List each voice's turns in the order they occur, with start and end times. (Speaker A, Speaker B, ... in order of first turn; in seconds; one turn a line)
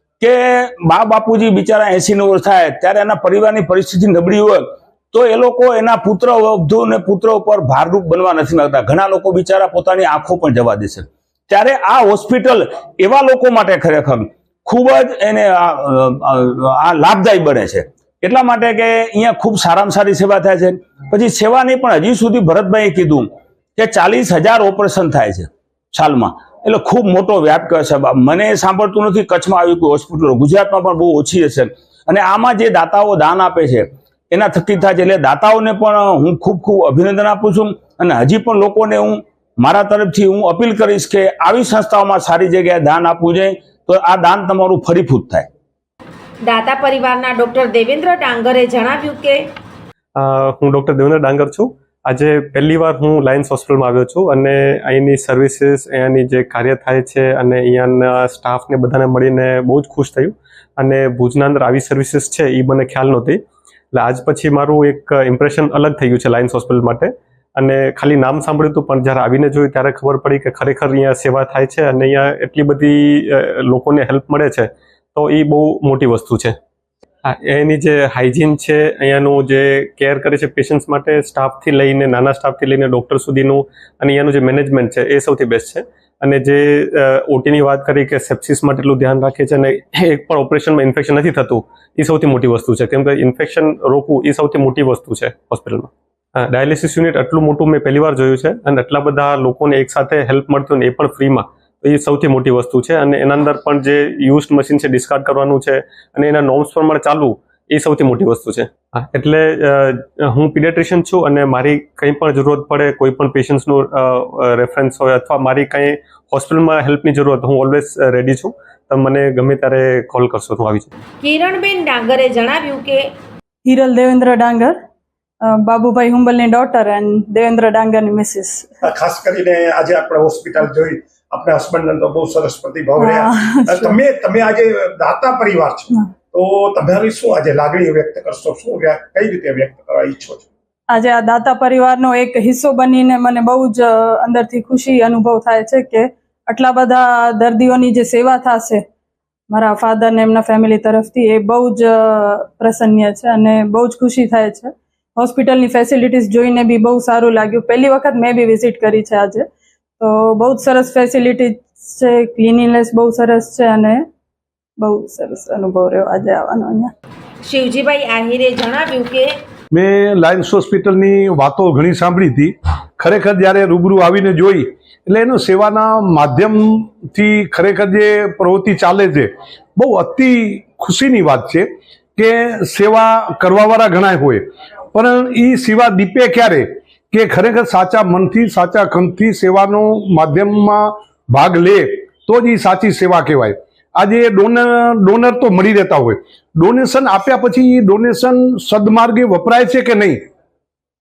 Speaker A: 0.2-45.5
Speaker B: 46.4-49.5
Speaker C: 50.1-63.4
Speaker C: 63.9-76.5
Speaker C: 77.2-120.9
Speaker B: 121.2-123.1
Speaker D: 123.6-124.8
Speaker D: 125.4-128.8
Speaker E: 128.8-140.5
Speaker D: 133.0-134.0
Speaker D: 140.9-148.8
Speaker D: 149.5-159.5
Speaker D: 160.0-164.0
Speaker D: 164.8-166.9
Speaker B: 167.4-169.3
Speaker F: 169.7-200.2